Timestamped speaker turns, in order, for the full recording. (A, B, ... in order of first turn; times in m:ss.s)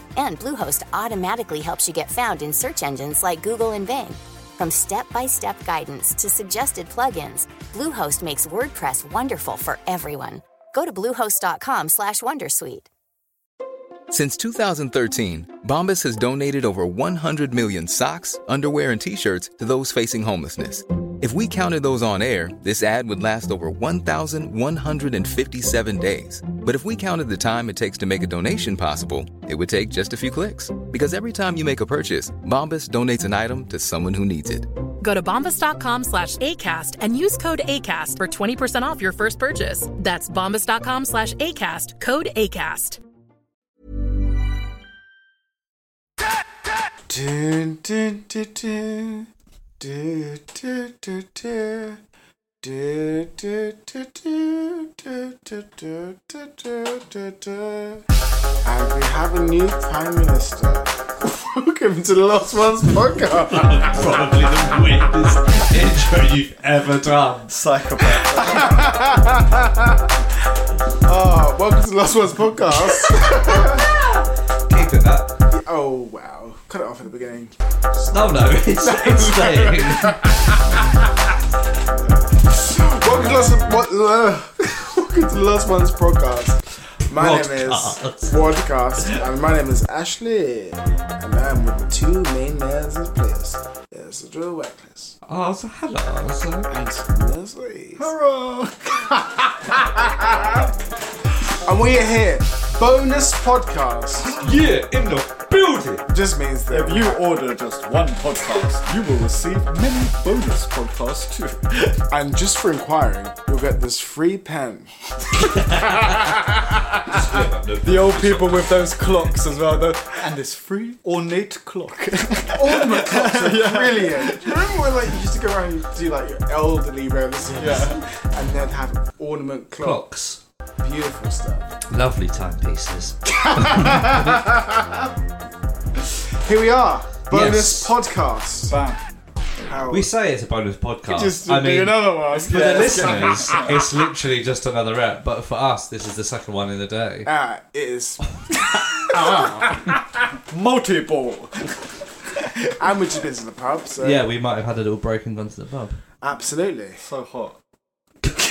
0:00.2-0:12.9 A
0:14.1-0:34.7 B
0:35.0-0:43.0 C
0:47.1-0:52.0 D
0:52.6-0:58.0 D
0:58.6-1:04.6 D
1:03.5-1:08.2 E
1:07.5-1:09.1 F
1:08.4-1:10.1 D
1:11.0-1:13.9 D
1:14.7-1:15.3 E
1:15.5-1:21.1 D
1:18.1-1:20.2 E
1:22.4-1:35.1 D
1:27.1-1:29.0 E
1:35.2-1:36.7 E
1:36.7-1:38.1 D
1:38.0-1:39.2 F
1:39.6-1:40.7 D
1:41.5-1:44.4 D
1:44.3-1:46.0 E
1:46.1-1:47.2 D
1:46.7-1:52.0 F
1:52.1-1:57.2 D
1:55.4-1:58.7 E
1:57.8-2:04.6 F
2:02.5-2:10.0 D
2:07.5-2:08.0 F
2:09.8-2:10.4 E
2:10.8-2:11.7 D
2:11.9-2:14.5 E
2:13.2-2:14.8 D
2:16.4-2:18.8 D
2:17.3-2:17.9 E
2:18.7-2:19.0 F
2:19.6-2:20.1 D
2:19.9-2:27.3 E
2:21.1-2:23.8 D
2:22.3-2:23.8 F
2:27.2-2:30.0 D
2:30.5-2:31.7 F
2:32.8-2:34.2 D
2:34.0-2:36.0 E
2:36.2-2:37.0 D
2:37.0-2:37.6 F